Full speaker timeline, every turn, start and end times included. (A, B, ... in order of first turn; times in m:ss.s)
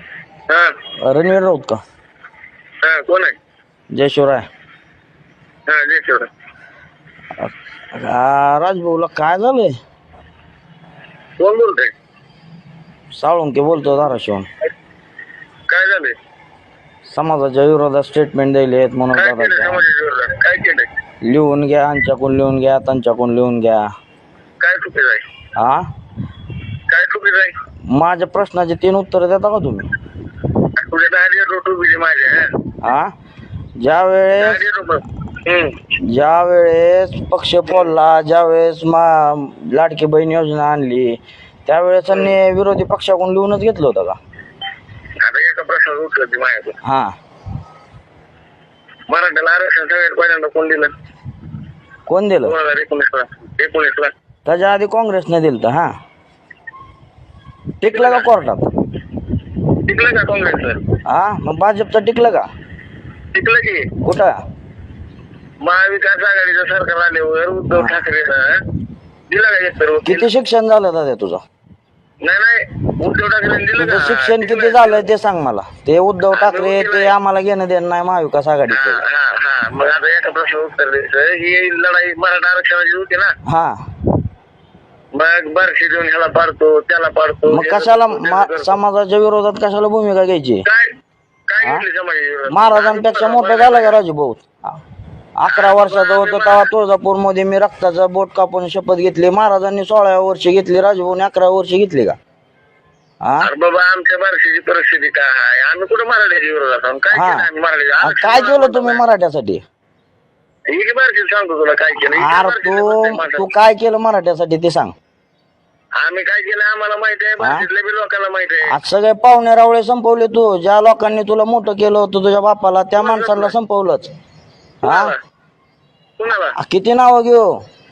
0:00.5-0:00.7 A
0:01.0-0:01.8 B
0:02.8-0:03.3 A
0:03.9-0:04.5 B
0:05.7-0:06.3 A
0:07.4-0:09.8 B
0:11.4-0:11.9 A
0:13.2-0:14.5 B
0:15.7-0:16.1 A
0:17.1-0:19.8 B
0:19.2-0:20.9 A
0:21.2-0:23.8 B
0:24.6-0:25.2 A
0:25.6-0:25.9 B
0:26.9-0:27.5 A
0:27.9-0:29.9 B
0:30.8-0:32.5 A
0:32.8-0:33.1 B
0:33.8-0:34.6 B
0:34.4-0:35.8 A
0:36.1-0:44.2 B
0:45.2-0:46.8 A
0:46.8-0:47.1 B
0:49.1-0:50.9 A
0:52.1-0:52.5 B
0:52.4-0:54.1 A
0:54.4-0:55.9 B
0:57.8-0:58.6 B
0:57.9-0:58.3 A
0:59.8-1:00.8 A
1:01.1-1:02.5 B
1:03.3-1:03.9 A
1:04.0-1:04.4 B
1:05.6-1:08.6 A
1:07.7-1:08.0 B
1:09.3-1:10.3 A
1:10.0-1:11.4 B
1:12.2-1:15.1 A
1:13.8-1:19.0 B
1:16.3-1:17.1 A
1:18.7-1:23.3 A
1:23.4-1:23.8 B
1:25.1-1:28.8 A
1:27.5-1:30.6 B
1:30.7-1:31.0 A
1:31.5-1:34.0 A
1:32.5-1:34.5 B
1:35.4-1:42.2 B
1:35.5-1:36.7 A
1:43.2-1:43.5 B
1:43.4-1:49.0 A
1:47.1-1:47.4 B
1:48.0-1:49.6 B
1:50.7-1:53.5 A
1:52.0-1:54.9 B
1:56.0-1:58.7 A
1:57.4-1:57.7 B
1:58.7-2:04.1 B
2:03.0-2:03.5 A
2:04.8-2:05.1 B
2:04.8-2:05.2 A
2:06.2-2:06.6 A
2:06.6-2:07.5 B